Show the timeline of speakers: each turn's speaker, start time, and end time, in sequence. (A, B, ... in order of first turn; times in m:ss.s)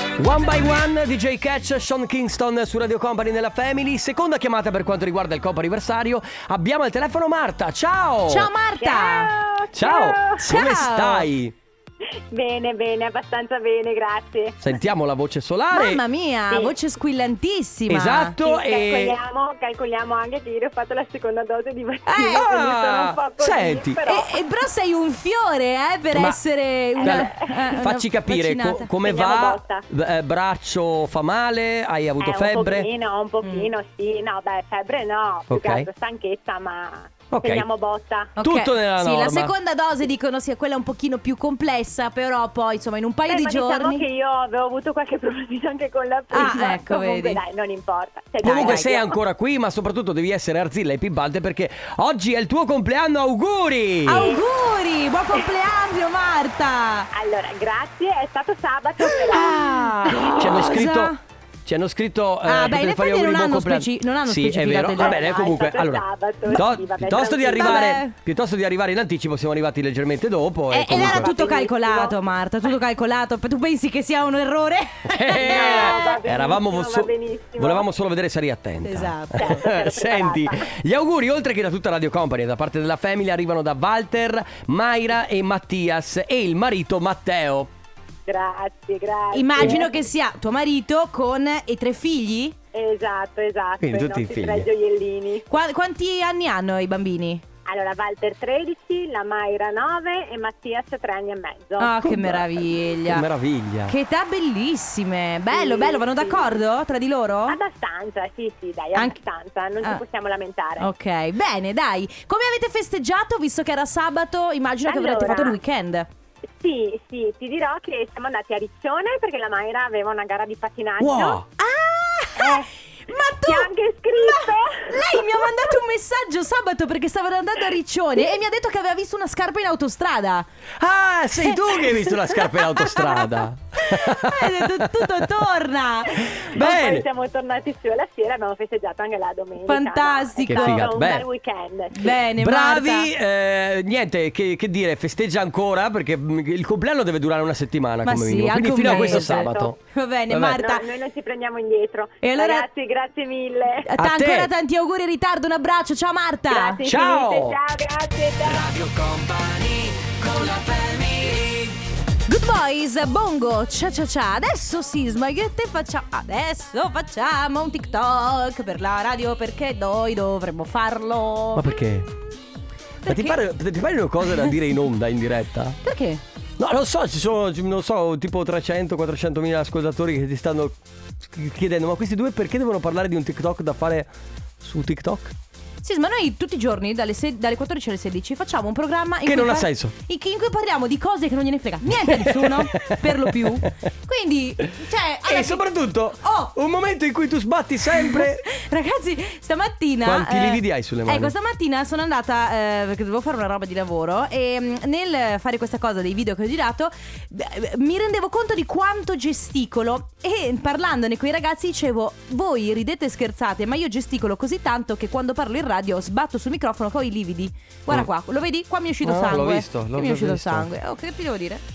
0:00.2-0:08.5 A
0:08.3-0:09.3 B
0:08.8-0:10.4 C
0:09.7-0:11.5 A
0:10.4-0:11.3 B
0:12.3-0:14.6 C
0:14.6-0:16.0 A
0:15.7-0:18.4 B
0:17.9-0:19.2 A
0:18.4-0:24.3 C
0:22.1-0:22.5 B
0:22.2-0:24.0 A
0:24.1-0:28.9 B
0:26.1-0:26.4 A
0:27.0-0:27.8 C
0:27.0-0:32.9 A
0:29.0-0:29.8 C
0:32.2-0:38.3 C
0:33.4-0:33.7 B
0:35.5-0:35.9 A
0:37.3-0:37.7 A
0:38.4-0:44.0 B
0:38.4-0:39.5 A
0:43.3-0:49.2 C
0:46.3-0:47.4 B
0:48.4-0:48.9 B
0:48.4-0:54.3 A
0:54.1-0:57.1 B
0:54.2-0:54.5 C
0:57.1-0:59.6 C
0:59.2-1:01.2 B
0:59.3-1:01.1 A
1:01.7-1:11.3 A
1:02.4-1:05.2 B
1:05.0-1:08.0 C
1:07.6-1:08.1 B
1:10.7-1:16.2 B
1:10.9-1:12.2 C
1:15.1-1:27.7 A
1:15.3-1:17.9 C
1:18.8-1:19.7 B
1:19.4-1:20.7 C
1:28.3-1:29.9 C
1:29.3-1:32.6 B
1:32.7-1:35.5 C
1:33.8-1:34.7 A
1:35.5-1:37.4 B
1:37.7-1:41.9 C
1:41.8-1:43.3 B
1:42.0-1:44.0 A
1:43.9-1:47.6 B
1:45.5-1:46.6 C
1:47.5-1:50.9 C
1:50.8-1:56.1 B
1:54.9-1:55.6 C
1:56.6-2:01.4 C
2:01.0-2:01.4 A
2:01.6-2:10.5 B
2:02.4-2:02.7 C
2:03.4-2:05.6 C
2:10.8-2:15.3 A
2:11.4-2:16.3 B
2:16.2-2:22.2 C
2:16.3-2:17.1 A
2:19.7-2:21.0 B
2:20.5-2:21.2 A
2:21.9-2:23.1 B
2:22.4-2:29.8 A
2:28.0-2:30.9 B
2:28.8-2:29.7 C
2:30.3-2:30.6 A
2:30.6-2:33.9 C
2:32.2-2:32.7 B
2:33.8-2:36.8 B
2:34.0-2:34.5 A
2:36.5-2:38.7 C
2:36.8-2:37.6 A
2:38.6-2:40.2 A
2:42.3-2:51.7 B
2:51.5-2:52.1 A
2:53.0-2:53.4 B
2:53.1-2:55.8 A
2:55.8-2:56.2 B
2:56.6-3:00.8 A
3:01.3-3:04.1 A
3:04.6-3:05.3 A
3:05.8-3:15.6 B
3:09.2-3:09.9 A
3:12.0-3:13.4 A
3:15.2-3:18.5 A
3:16.2-3:16.5 B
3:17.9-3:41.6 B
3:20.0-3:21.4 A
3:39.0-3:40.7 A